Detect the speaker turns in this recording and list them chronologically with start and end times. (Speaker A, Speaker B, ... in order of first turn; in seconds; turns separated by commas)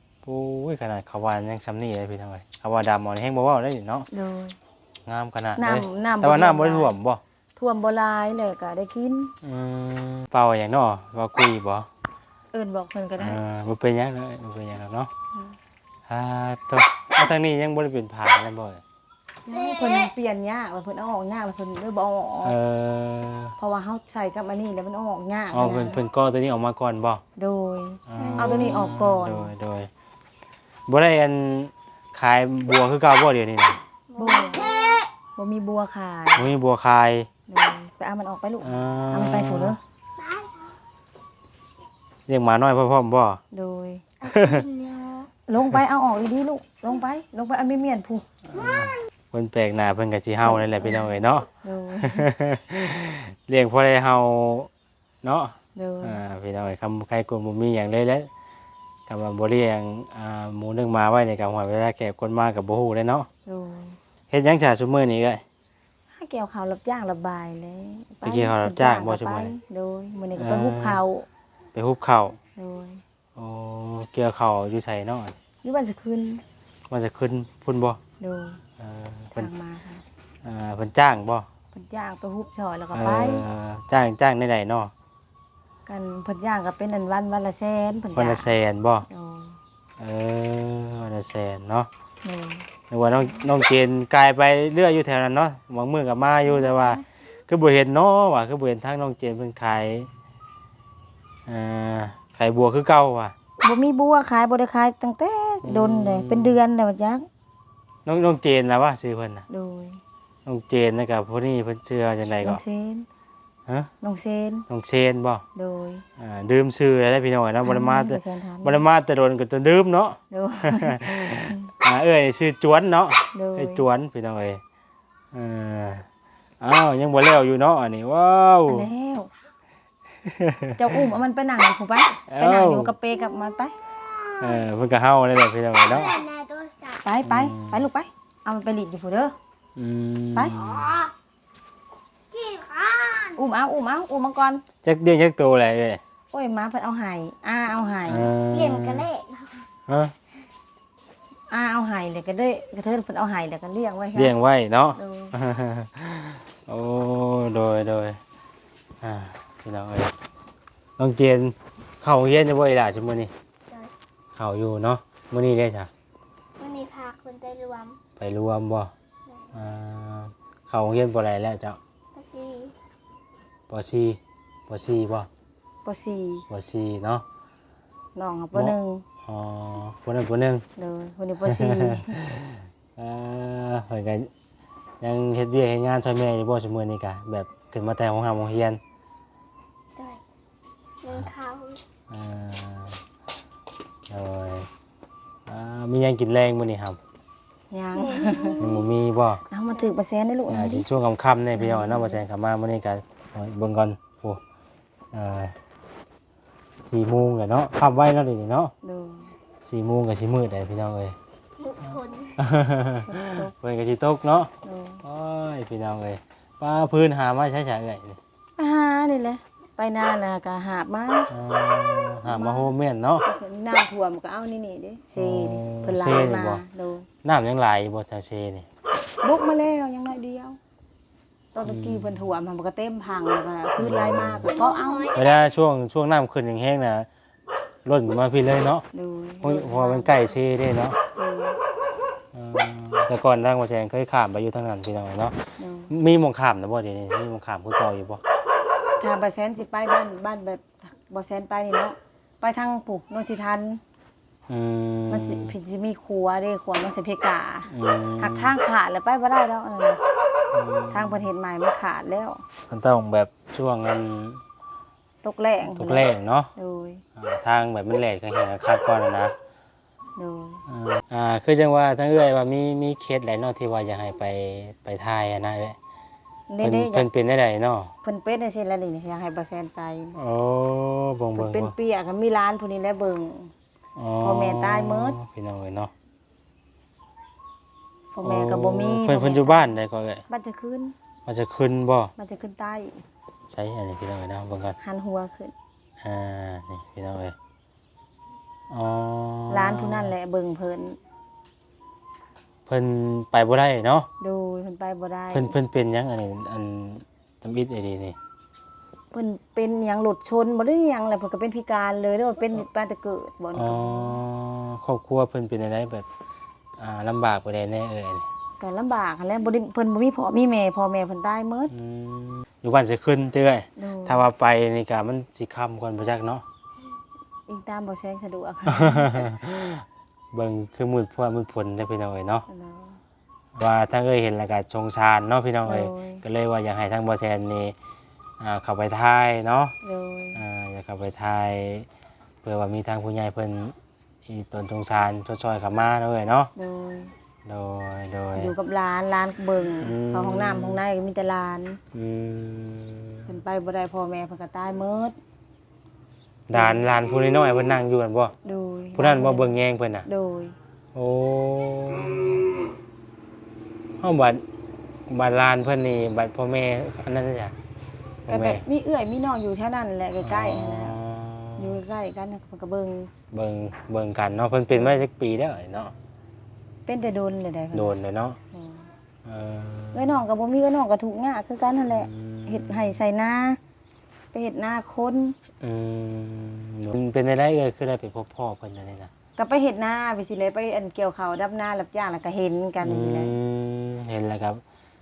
Speaker A: 0.2-4.1, Speaker B: 4.1-4.6, Speaker A: 5.1-7.2, Speaker B: 5.6-7.0, Speaker B: 7.6-9.3, Speaker A: 9.4-11.9, Speaker B: 12.5-13.4, Speaker A: 13.2-15.1, Speaker A: 16.1-18.8, Speaker B: 19.5-22.6, Speaker C: 19.5-20.1, Speaker A: 22.4-23.6, Speaker B: 23.6-26.0, Speaker A: 25.5-27.2, Speaker B: 27.4-29.5, Speaker A: 28.1-29.9, Speaker C: 28.2-28.9, Speaker A: 30.9-33.8, Speaker C: 34.1-35.1, Speaker B: 34.2-34.7, Speaker B: 35.4-36.5, Speaker A: 36.4-37.3, Speaker B: 37.5-39.8, Speaker A: 38.6-39.8, Speaker C: 40.2-40.7, Speaker A: 42.3-43.4, Speaker B: 43.5-44.0, Speaker C: 44.2-45.3, Speaker A: 44.3-44.6, Speaker B: 45.5-48.3, Speaker A: 48.5-51.5, Speaker B: 50.4-51.1, Speaker B: 51.6-52.3, Speaker A: 52.0-54.7, Speaker A: 55.2-58.3, Speaker B: 55.8-56.2, Speaker A: 59.1-63.3, Speaker B: 63.5-64.0, Speaker A: 64.3-65.4, Speaker B: 66.1-71.3, Speaker A: 68.2-69.5, Speaker A: 70.3-71.0, Speaker A: 71.7-72.4, Speaker B: 72.6-73.0, Speaker A: 73.4-75.4, Speaker B: 75.6-76.4, Speaker A: 76.9-78.0, Speaker B: 78.2-78.6, Speaker A: 78.8-79.5, Speaker B: 79.3-80.0, Speaker A: 80.4-81.5, Speaker B: 81.7-83.4, Speaker A: 82.9-84.9, Speaker B: 85.9-88.5, Speaker A: 88.2-89.1, Speaker B: 89.1-89.6, Speaker A: 90.0-91.9, Speaker B: 92.2-92.7, Speaker A: 92.9-100.1, Speaker B: 96.5-97.0, Speaker A: 101.5-103.3, Speaker B: 103.6-107.3, Speaker A: 105.6-106.6, Speaker A: 108.0-109.5, Speaker B: 109.5-110.0, Speaker A: 110.5-112.6, Speaker B: 112.2-113.1, Speaker B: 114.0-114.7, Speaker A: 114.7-115.4, Speaker B: 115.5-116.0, Speaker A: 116.2-124.6, Speaker B: 117.6-118.9, Speaker B: 120.3-121.7, Speaker B: 123.3-123.9, Speaker A: 125.3-126.1, Speaker A: 126.6-128.9, Speaker B: 128.7-129.3, Speaker A: 130.2-131.0, Speaker B: 130.8-133.8, Speaker A: 132.3-132.9, Speaker C: 134.2-134.6, Speaker A: 134.4-136.2, Speaker C: 135.8-137.0, Speaker B: 137.0-139.3, Speaker A: 137.2-137.8, Speaker A: 139.8-141.1, Speaker C: 142.3-143.4, Speaker B: 143.4-144.7, Speaker A: 144.8-146.0, Speaker B: 146.3-148.3, Speaker A: 148.1-149.1, Speaker C: 148.5-149.7, Speaker A: 149.9-150.1, Speaker B: 151.5-154.3, Speaker A: 154.2-158.2, Speaker B: 155.0-155.3, Speaker A: 159.0-160.1, Speaker A: 161.0-163.3, Speaker A: 164.3-165.9, Speaker C: 166.6-168.0, Speaker A: 168.2-168.9, Speaker A: 169.5-171.8, Speaker C: 172.1-172.7, Speaker A: 173.7-175.3, Speaker B: 175.8-176.5, Speaker A: 176.5-177.2, Speaker B: 178.2-179.1, Speaker A: 178.5-180.7, Speaker B: 180.8-182.1, Speaker A: 181.4-184.3, Speaker A: 185.0-188.8, Speaker C: 190.0-190.2, Speaker C: 191.0-191.8, Speaker A: 192.1-193.0, Speaker A: 194.1-194.7, Speaker A: 195.5-197.0, Speaker B: 197.7-198.6, Speaker C: 198.0-198.9, Speaker A: 198.6-199.4, Speaker B: 199.5-200.9, Speaker A: 200.5-204.4, Speaker B: 201.6-202.2, Speaker A: 205.1-205.6, Speaker A: 206.8-208.7, Speaker B: 208.8-209.3, Speaker A: 209.7-211.2, Speaker C: 211.6-212.4, Speaker A: 212.4-214.5, Speaker B: 213.1-213.5, Speaker B: 214.6-215.0, Speaker A: 215.0-218.2, Speaker B: 218.6-221.3, Speaker A: 221.3-223.3, Speaker B: 222.2-222.7, Speaker B: 223.2-227.1, Speaker A: 225.2-226.6, Speaker A: 227.2-228.7, Speaker B: 229.2-230.6, Speaker B: 231.5-235.2, Speaker A: 231.7-232.2, Speaker A: 233.8-234.5, Speaker C: 234.4-235.4, Speaker A: 235.2-237.1, Speaker A: 237.8-238.8, Speaker B: 238.9-240.4, Speaker A: 239.4-241.0, Speaker B: 241.2-241.6, Speaker A: 242.3-248.2, Speaker B: 245.6-245.9, Speaker B: 249.0-253.8, Speaker A: 254.5-255.6, Speaker B: 255.1-260.0, Speaker A: 257.7-258.6, Speaker A: 260.5-261.3, Speaker B: 260.9-262.4, Speaker A: 262.7-264.4, Speaker B: 265.2-267.0, Speaker A: 265.6-266.5, Speaker A: 267.2-269.4, Speaker B: 270.2-270.6, Speaker A: 270.7-275.8, Speaker B: 276.5-277.1, Speaker A: 276.6-277.9, Speaker B: 278.0-280.2, Speaker A: 280.1-281.7, Speaker B: 281.4-283.5, Speaker A: 284.0-285.9, Speaker B: 284.2-285.2, Speaker B: 288.1-289.8, Speaker A: 288.2-290.2, Speaker B: 290.3-291.0, Speaker A: 291.3-292.1, Speaker B: 292.2-293.0, Speaker A: 293.5-294.8, Speaker B: 294.8-295.5, Speaker A: 296.0-297.4, Speaker A: 298.7-300.1, Speaker B: 299.5-301.0, Speaker A: 302.7-304.1, Speaker B: 304.2-305.6, Speaker A: 305.3-308.2, Speaker B: 309.1-314.2, Speaker A: 313.5-316.1, Speaker A: 316.8-318.3, Speaker B: 318.6-321.7, Speaker A: 321.7-326.4, Speaker B: 323.8-324.3, Speaker B: 327.5-329.3, Speaker A: 328.7-332.4, Speaker B: 332.5-333.0, Speaker A: 333.6-337.8, Speaker B: 335.6-336.2, Speaker A: 338.4-339.8, Speaker B: 339.8-340.4, Speaker A: 340.3-341.9, Speaker A: 342.4-343.8, Speaker A: 344.3-346.5, Speaker B: 346.6-347.1, Speaker A: 347.4-348.5, Speaker B: 348.4-351.8, Speaker A: 349.8-350.8, Speaker A: 351.9-353.3, Speaker B: 353.3-355.2, Speaker A: 356.5-358.3, Speaker B: 356.5-356.9, Speaker B: 358.4-360.6, Speaker A: 358.9-360.1, Speaker A: 360.9-362.5, Speaker A: 364.0-364.4, Speaker A: 365.1-367.6, Speaker A: 368.3-368.6, Speaker B: 368.3-371.0, Speaker A: 370.2-371.8, Speaker B: 371.6-373.1, Speaker A: 373.3-375.9, Speaker B: 374.7-375.0, Speaker B: 376.9-378.0, Speaker A: 377.7-378.4, Speaker B: 378.5-378.9, Speaker A: 379.2-380.2, Speaker B: 379.9-383.6, Speaker A: 381.9-383.0, Speaker B: 384.3-385.4, Speaker A: 385.6-389.1, Speaker B: 389.4-393.4, Speaker A: 392.8-394.6